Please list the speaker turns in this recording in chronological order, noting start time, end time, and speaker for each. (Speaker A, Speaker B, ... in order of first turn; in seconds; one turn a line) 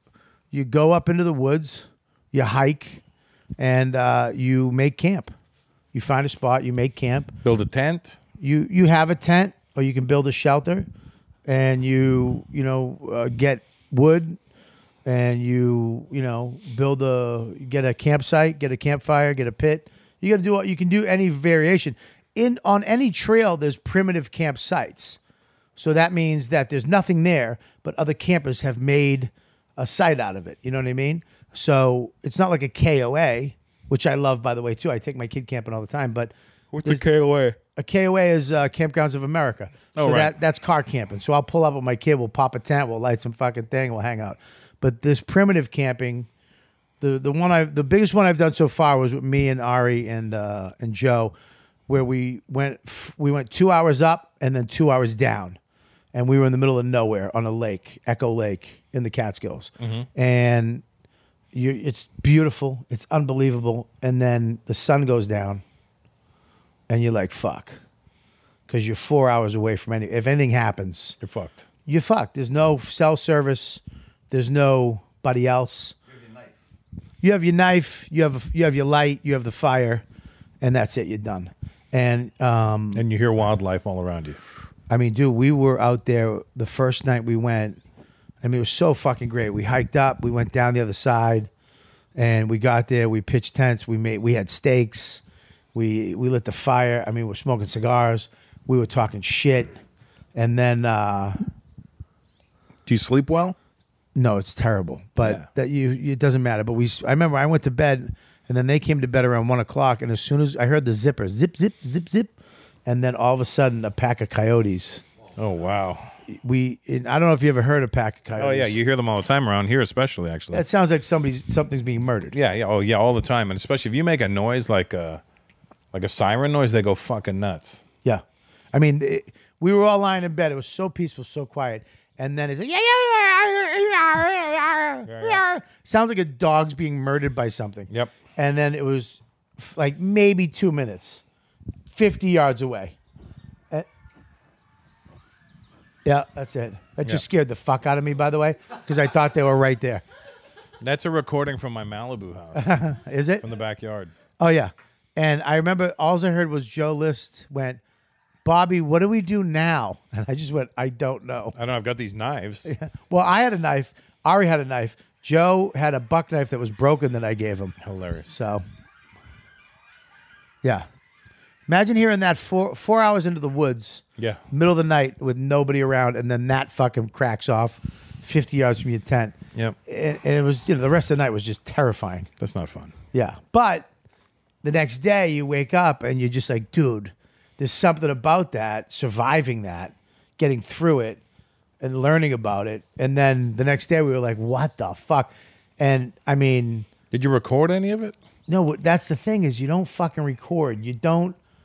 Speaker A: 0.5-3.0
Speaker A: 3.6-5.3
Speaker A: 5.9-7.3
Speaker B: 7.4-8.2
Speaker A: 8.4-10.9
Speaker A: 11.4-14.4
Speaker A: 15.0-25.2
Speaker A: 25.8-36.3
Speaker B: 36.7-37.6
Speaker A: 37.8-46.3
Speaker B: 39.9-40.3
Speaker A: 47.0-51.3
Speaker A: 51.9-55.6
Speaker A: 56.1-60.8
Speaker B: 59.8-60.1
Speaker A: 61.5-65.6
Speaker A: 66.9-67.8
Speaker A: 68.7-71.2
Speaker B: 71.2-71.7
Speaker A: 71.8-75.9
Speaker A: 77.2-80.0
Speaker A: 80.6-83.0
Speaker B: 82.9-84.4
Speaker A: 84.9-87.8
Speaker A: 88.4-91.5
Speaker A: 92.2-95.2
Speaker A: 95.7-99.8
Speaker A: 100.3-101.5
Speaker B: 102.8-103.5
Speaker A: 104.1-112.3
Speaker B: 105.2-105.5
Speaker A: 112.8-115.0
Speaker B: 115.4-116.1
Speaker A: 116.3-118.8
Speaker B: 118.4-120.6
Speaker A: 120.5-122.3
Speaker B: 122.3-125.2
Speaker B: 125.9-127.8
Speaker A: 128.0-141.2
Speaker B: 135.1-135.4
Speaker A: 141.9-142.9
Speaker A: 146.0-150.0
Speaker B: 150.8-152.8
Speaker A: 152.5-153.4
Speaker B: 153.4-154.1
Speaker A: 154.4-157.8
Speaker A: 158.4-161.6
Speaker B: 161.5-162.7
Speaker A: 162.6-167.8
Speaker B: 167.8-168.3
Speaker A: 168.3-168.6
Speaker A: 171.7-182.3
Speaker B: 182.4-182.9
Speaker A: 183.1-183.9
Speaker A: 184.6-191.2
Speaker A: 191.8-196.9
Speaker B: 197.1-198.2
Speaker A: 198.5-201.4